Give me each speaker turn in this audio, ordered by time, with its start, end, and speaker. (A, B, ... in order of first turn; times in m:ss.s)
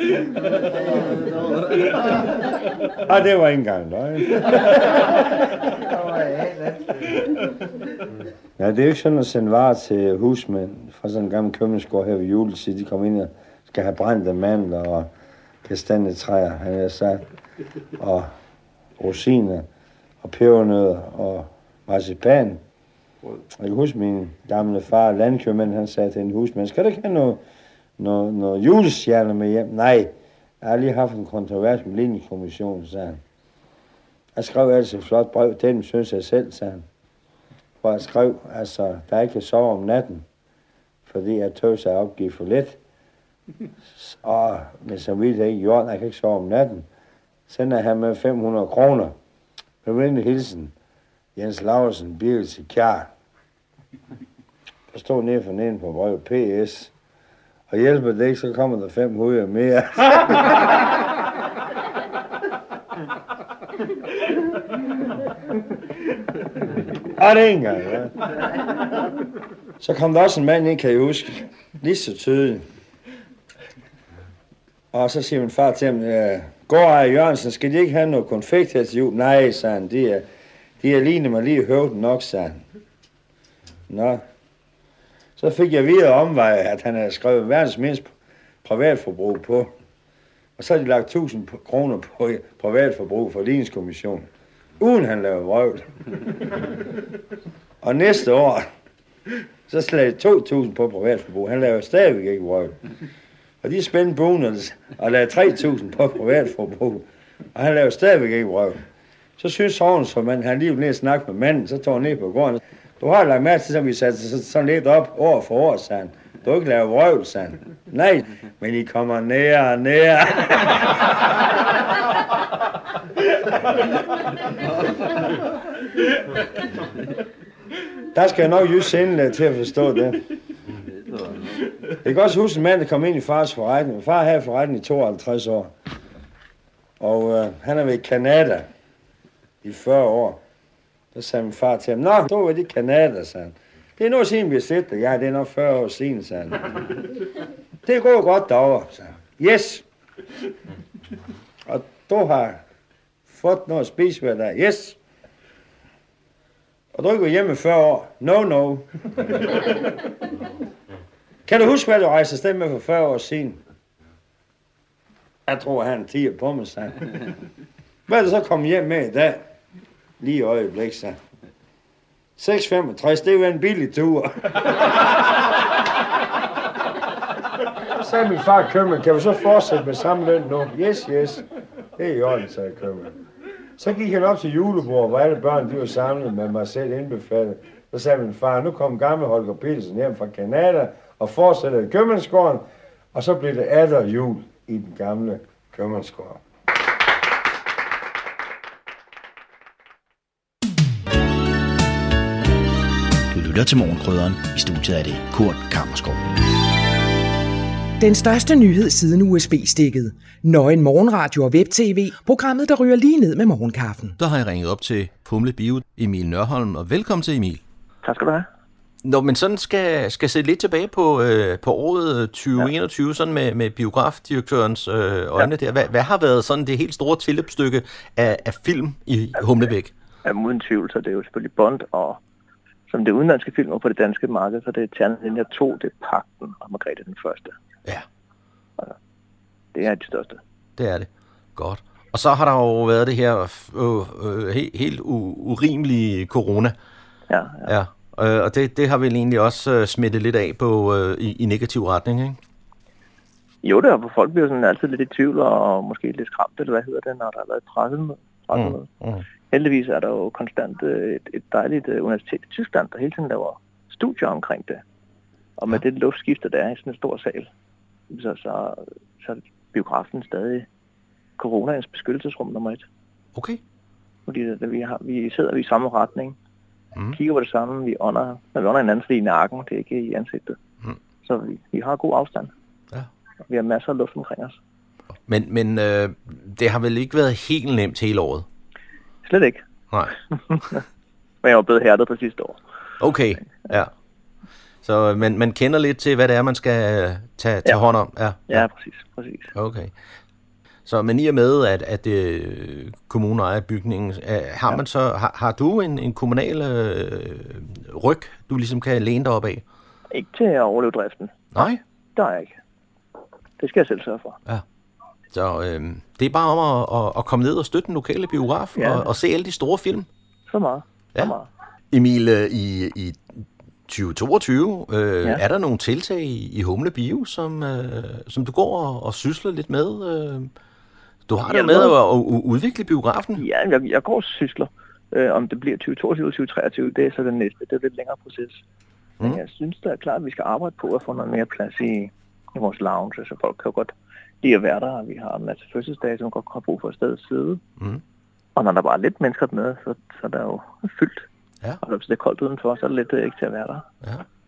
0:02.9-0:06.8 A
0:08.6-0:15.1 A
0:15.6-0:17.3 A
0:18.0-0:18.3 A
0:19.0-0:19.6 A
0:20.2-0:22.6 A
0:23.5-0:27.4 A
0:28.0-0:33.2 A
0:34.4-0:36.8 A
0:37.8-0:40.2 A
0:41.0-0:42.8 A
0:44.0-0:46.8 A
0:47.5-0:49.1 A
0:49.8-0:50.7 A
0:51.4-0:53.1 A
0:54.9-0:56.9 A
0:57.7-1:00.9 A
1:07.2-1:08.3 A
1:09.8-1:12.6 A
1:14.9-1:20.2 A
1:20.8-1:22.6 A
1:23.9-1:24.2 A
1:25.4-1:28.1 A
1:28.6-1:29.7 A
1:30.6-1:34.3 A
1:34.8-1:35.9 A
1:37.8-1:38.7 A
1:39.7-1:42.8 A
1:43.6-1:48.8 A
1:49.4-2:01.2 A
2:08.1-2:10.2 A
2:12.0-2:15.7 A
2:17.0-2:18.7 A
2:19.6-2:20.4 A
2:21.1-2:26.8 A
2:27.8-2:29.8 A
2:31.6-2:32.6 A
2:33.3-2:35.0 A
2:36.9-2:39.4 A
2:41.4-2:43.6 A
2:45.5-2:47.2 A
2:48.1-2:49.5 A
2:50.2-2:51.2 A
2:52.4-2:54.8 A
2:57.9-3:01.4 A
3:02.0-3:03.2 A
3:03.8-3:16.4 A
3:23.3-3:26.2 B
3:28.0-3:34.1 C
3:34.2-3:37.6 D
3:38.0-3:38.5 E
3:39.0-3:49.9 D
3:50.2-3:52.2 E
3:52.9-3:57.5 E
3:59.7-4:00.4 E
4:00.8-4:06.7 D
4:07.3-4:07.7 E
4:07.6-4:12.4 D
4:13.6-4:18.9 E
4:18.5-4:19.2 D
4:19.4-4:24.8 E
4:25.6-4:27.5 E
4:28.1-4:30.7 E
4:31.4-4:32.8 E
4:33.3-4:33.6 D
4:34.2-4:36.4 E
4:37.1-4:40.6 E
4:41.2-4:42.5 E
4:43.5-4:44.6 E
4:45.3-4:48.4 D
4:49.2-4:49.6 E
4:50.5-4:50.8 E
4:51.4-4:52.6 E
4:53.0-4:53.9 D
4:54.8-4:58.6 D
4:57.6-4:57.9 E
4:58.5-4:59.5 E
4:59.5-4:59.9 D
5:00.8-5:09.6 D
5:10.1-5:12.6 E
5:11.5-5:11.8 D
5:13.6-5:14.4 E
5:15.3-5:20.1 D
5:18.7-5:19.1 E
5:20.5-5:21.5 E
5:21.9-5:30.5 D
5:31.3-5:33.4 D
5:31.4-5:31.9 E
5:33.4-5:38.6 E
5:39.2-5:47.6 E
5:48.6-5:51.2 E
5:51.8-5:53.8 E